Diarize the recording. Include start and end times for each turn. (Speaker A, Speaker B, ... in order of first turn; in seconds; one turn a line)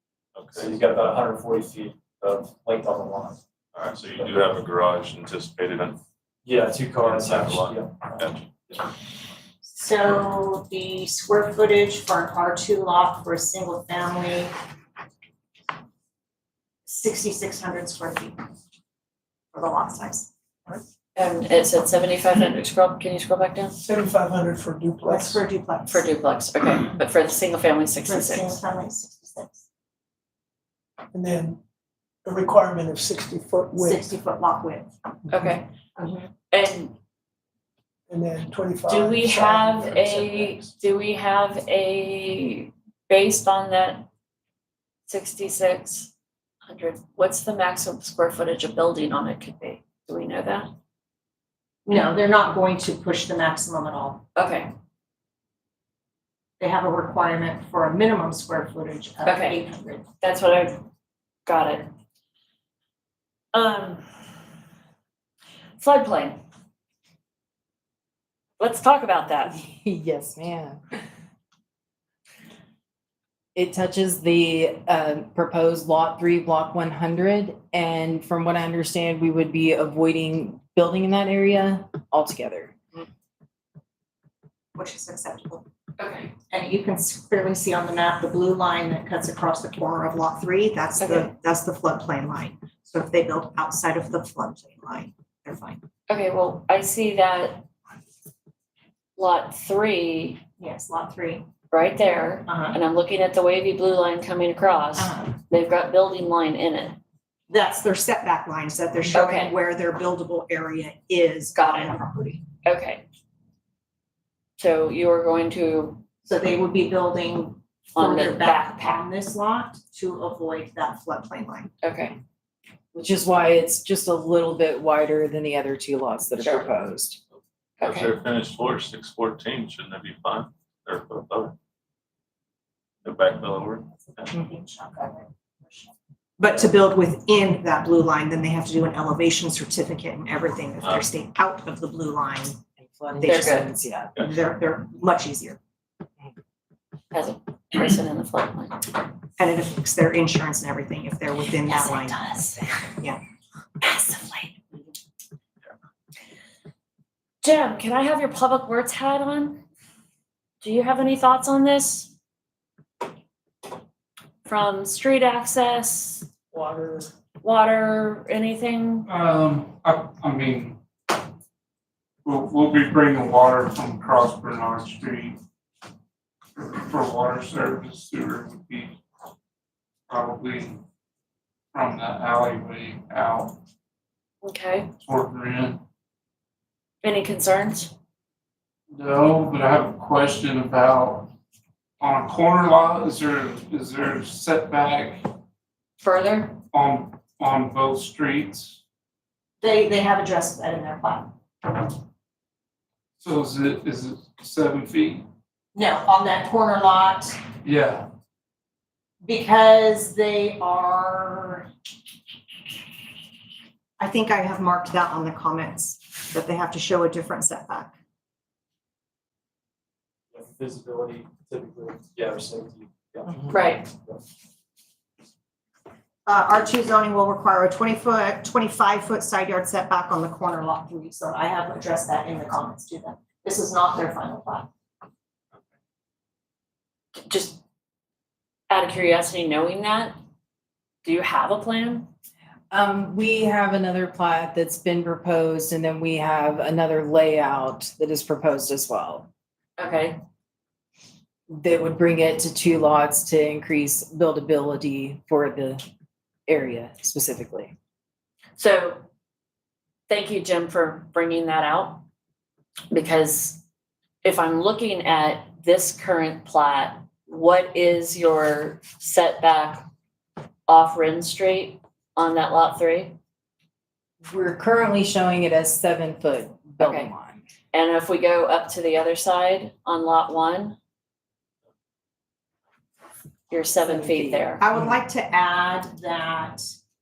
Speaker A: 0.3-0.8
Speaker B: 0.5-3.4
Speaker A: 3.7-6.0
Speaker B: 4.1-4.5
Speaker B: 6.5-8.8
Speaker A: 6.9-8.5
Speaker C: 9.7-14.5
Speaker C: 16.9-18.4
Speaker C: 19.5-20.8
Speaker D: 21.2-23.8
Speaker E: 23.8-25.4
Speaker C: 25.0-26.1
Speaker D: 25.9-28.6
Speaker C: 28.1-29.6
Speaker E: 31.1-31.6
Speaker E: 32.2-34.1
Speaker C: 33.8-34.9
Speaker D: 35.3-35.7
Speaker C: 36.0-36.3
Speaker D: 36.5-37.0
Speaker E: 38.1-40.6
Speaker D: 38.9-44.1
Speaker D: 45.1-46.1
Speaker D: 46.6-50.7
Speaker C: 51.9-54.2
Speaker D: 54.4-54.7
Speaker C: 56.6-60.0
Speaker D: 59.2-59.6
Speaker D: 60.2-60.8
Speaker D: 61.5-61.9
Speaker D: 63.5-64.1
Speaker D: 65.8-66.4
Speaker D: 68.6-69.6
Speaker F: 69.5-70.8
Speaker F: 73.5-82.7
Speaker C: 84.8-85.7
Speaker D: 86.0-86.3
Speaker C: 86.5-95.8
Speaker D: 91.0-91.3
Speaker D: 96.1-97.7
Speaker D: 99.2-100.4
Speaker C: 100.6-101.5
Speaker D: 101.7-107.0
Speaker C: 102.5-102.8
Speaker C: 105.0-105.4
Speaker C: 107.5-112.4
Speaker D: 109.1-109.5
Speaker D: 111.5-112.0
Speaker D: 112.6-113.0
Speaker D: 114.6-116.0
Speaker C: 116.2-121.7
Speaker D: 118.0-119.1
Speaker D: 121.8-122.2
Speaker F: 122.9-127.2
Speaker D: 126.4-126.8
Speaker D: 127.8-128.1
Speaker A: 127.8-131.6
Speaker A: 133.0-134.3
Speaker C: 134.3-142.6
Speaker F: 142.8-144.1
Speaker D: 143.2-143.8
Speaker C: 144.2-145.6
Speaker D: 147.1-148.8
Speaker C: 149.4-152.2
Speaker D: 151.6-152.7
Speaker D: 153.8-154.8
Speaker D: 157.4-159.6
Speaker D: 160.6-162.1
Speaker D: 164.4-166.3
Speaker E: 166.5-167.1
Speaker D: 167.4-169.1
Speaker G: 169.1-170.8
Speaker G: 172.2-175.4
Speaker G: 176.6-179.0
Speaker G: 180.1-180.8
Speaker G: 181.7-183.6
Speaker D: 184.4-184.9
Speaker G: 185.0-185.8
Speaker D: 187.0-187.9
Speaker G: 188.9-191.3
Speaker G: 192.0-195.3
Speaker D: 196.0-196.6
Speaker G: 196.7-198.8
Speaker C: 199.6-201.3
Speaker G: 203.2-205.3
Speaker C: 205.8-207.4
Speaker G: 207.6-208.1
Speaker C: 209.2-211.7
Speaker C: 214.0-217.9
Speaker B: 220.3-223.4
Speaker D: 223.5-223.9
Speaker C: 226.3-234.7
Speaker D: 237.3-237.6
Speaker D: 238.7-240.2
Speaker D: 241.0-242.1
Speaker F: 242.7-249.3
Speaker D: 249.8-250.2
Speaker F: 251.5-255.8
Speaker F: 256.5-257.7
Speaker D: 258.6-259.0
Speaker D: 260.1-262.0
Speaker D: 262.9-263.6
Speaker D: 264.2-269.9
Speaker D: 270.7-273.2
Speaker F: 274.2-277.4
Speaker D: 276.8-277.1
Speaker D: 277.7-280.8
Speaker D: 283.5-284.6
Speaker F: 283.8-284.8
Speaker C: 284.6-286.7